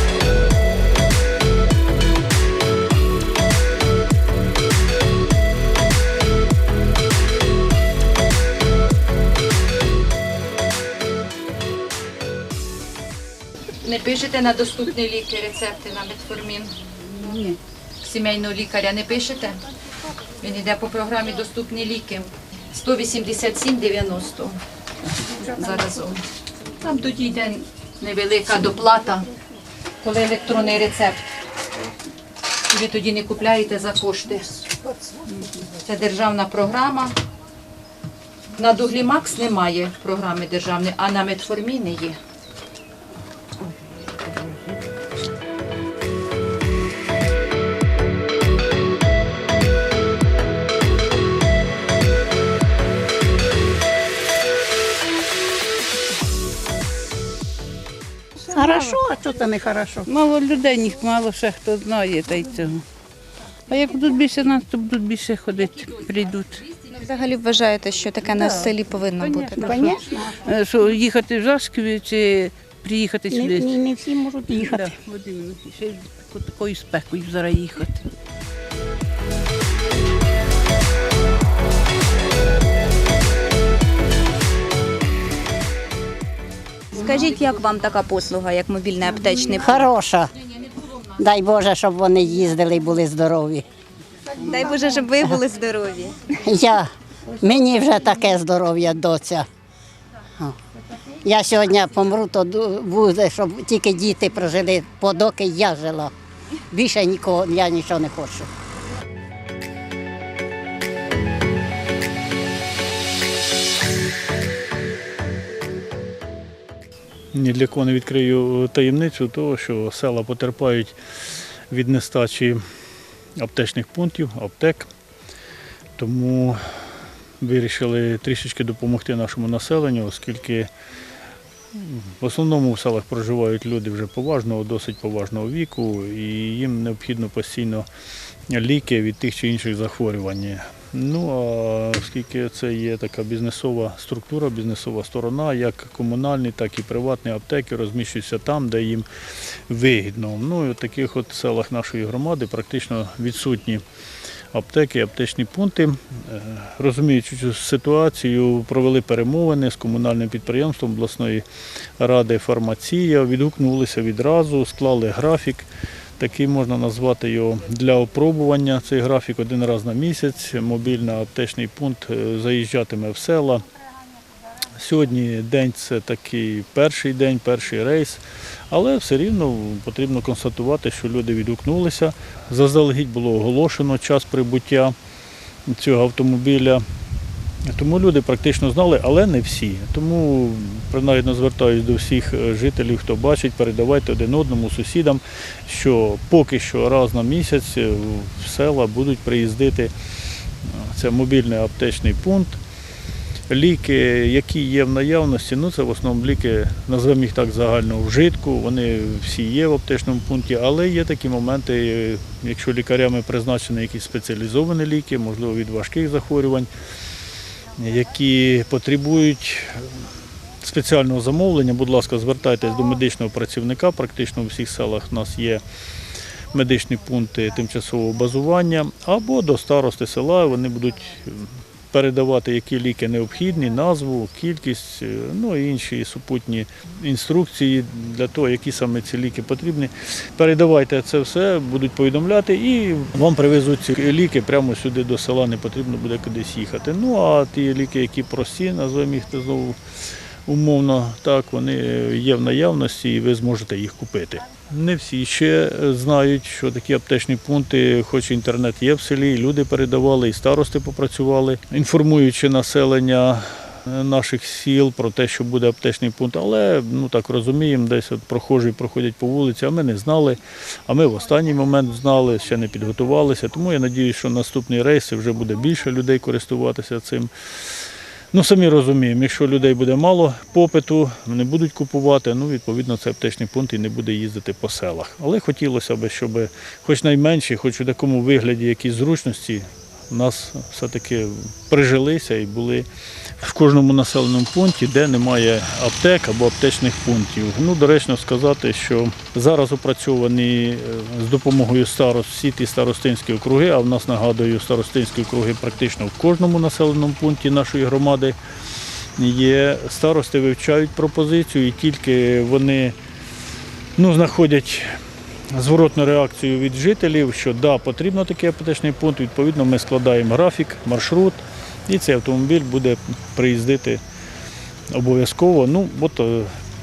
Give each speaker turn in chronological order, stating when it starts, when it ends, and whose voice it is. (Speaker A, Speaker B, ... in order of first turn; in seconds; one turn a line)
Speaker A: 13.8-16.7
Speaker A: 17.3-19.6
Speaker A: 20.4-24.6
Speaker A: 25.4-26.2
Speaker A: 26.8-29.3
Speaker A: 30.0-31.3
Speaker A: 32.7-34.7
Speaker A: 35.8-37.1
Speaker A: 38.6-42.2
Speaker B: 58.5-60.1
Speaker C: 58.5-59.0
Speaker C: 60.1-62.8
Speaker C: 63.7-66.7
Speaker D: 66.9-69.9
Speaker C: 69.2-73.9
Speaker B: 69.5-70.2
Speaker B: 73.3-74.9
Speaker C: 74.5-78.1
Speaker D: 86.9-89.8
Speaker B: 89.6-90.3
Speaker B: 91.2-93.6
Speaker D: 94.4-96.2
Speaker B: 96.3-99.5
Speaker B: 101.2-106.1
Speaker B: 106.7-108.5
Speaker E: 117.3-121.0
Speaker E: 121.7-122.6
Speaker E: 123.4-124.9
Speaker E: 126.0-126.8
Speaker E: 127.4-130.7
Speaker E: 131.8-137.9
Speaker E: 138.5-149.1
Speaker E: 149.7-153.8
Speaker E: 154.5-161.4
Speaker E: 162.0-165.7
Speaker E: 166.2-173.6
Speaker E: 174.7-184.9
Speaker E: 185.7-186.8
Speaker E: 187.7-199.9
Speaker E: 200.7-202.6
Speaker E: 203.5-216.7
Speaker E: 217.8-219.9
Speaker E: 220.6-225.6
Speaker E: 226.5-249.8
Speaker E: 250.5-277.3
Speaker E: 278.3-292.9
Speaker E: 293.4-308.4
Speaker E: 309.2-313.0
Speaker E: 314.0-314.9
Speaker E: 315.5-324.0
Speaker E: 324.9-326.5